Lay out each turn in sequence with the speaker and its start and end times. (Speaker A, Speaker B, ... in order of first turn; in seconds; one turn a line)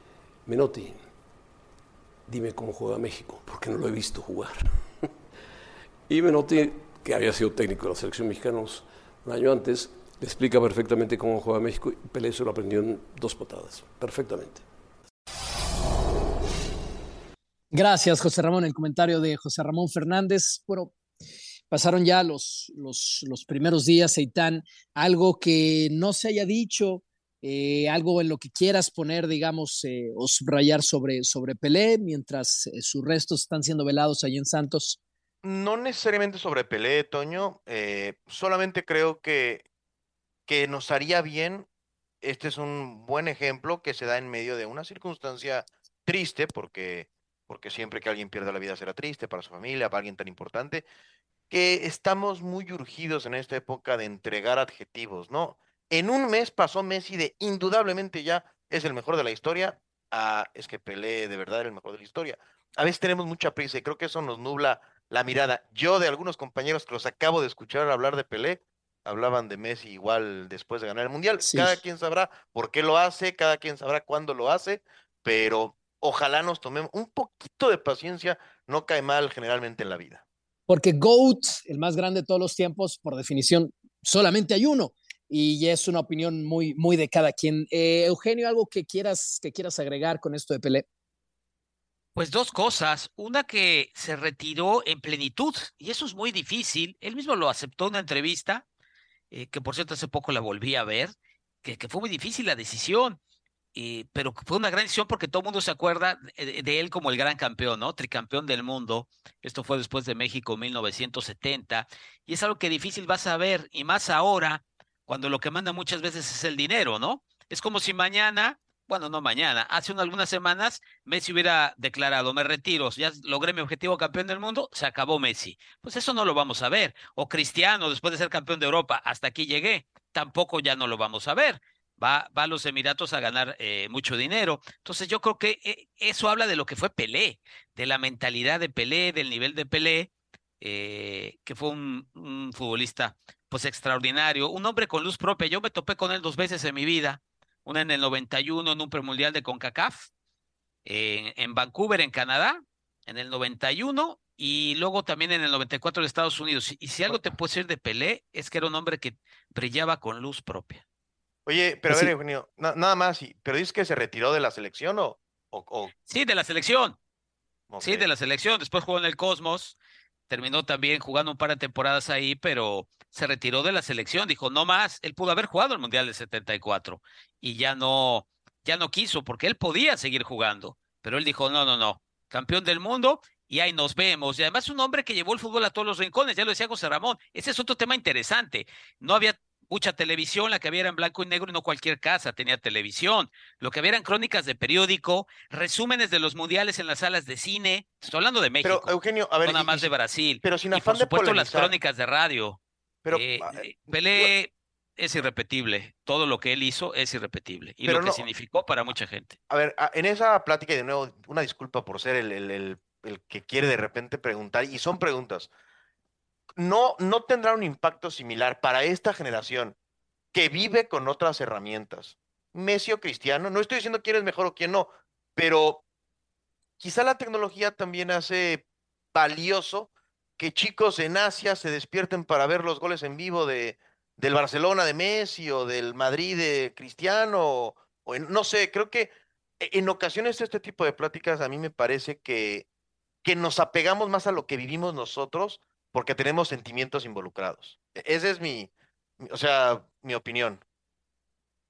Speaker A: 0.5-1.0
Speaker A: 2.3-5.1
Speaker A: 6.1-14.6
Speaker B: 17.7-20.9
Speaker B: 21.7-35.0
Speaker C: 35.4-39.6
Speaker C: 40.5-41.7
Speaker C: 42.2-50.9
Speaker C: 51.5-80.2
Speaker B: 71.4-71.8
Speaker B: 80.7-90.9
Speaker D: 92.2-98.7
Speaker D: 99.3-103.2
Speaker D: 103.8-140.1
Speaker D: 140.6-150.1
Speaker D: 150.8-160.8
Speaker C: 161.5-165.9
Speaker D: 166.1-167.0
Speaker C: 167.7-168.1
Speaker D: 167.8-169.8
Speaker D: 170.3-202.6
Speaker C: 198.6-199.9
Speaker C: 200.4-201.7
Speaker C: 203.1-203.6
Speaker D: 203.1-209.4
Speaker C: 207.8-208.2
Speaker C: 209.5-215.5
Speaker C: 216.6-219.8
Speaker C: 220.3-225.8
Speaker C: 226.8-242.7
Speaker C: 243.2-250.6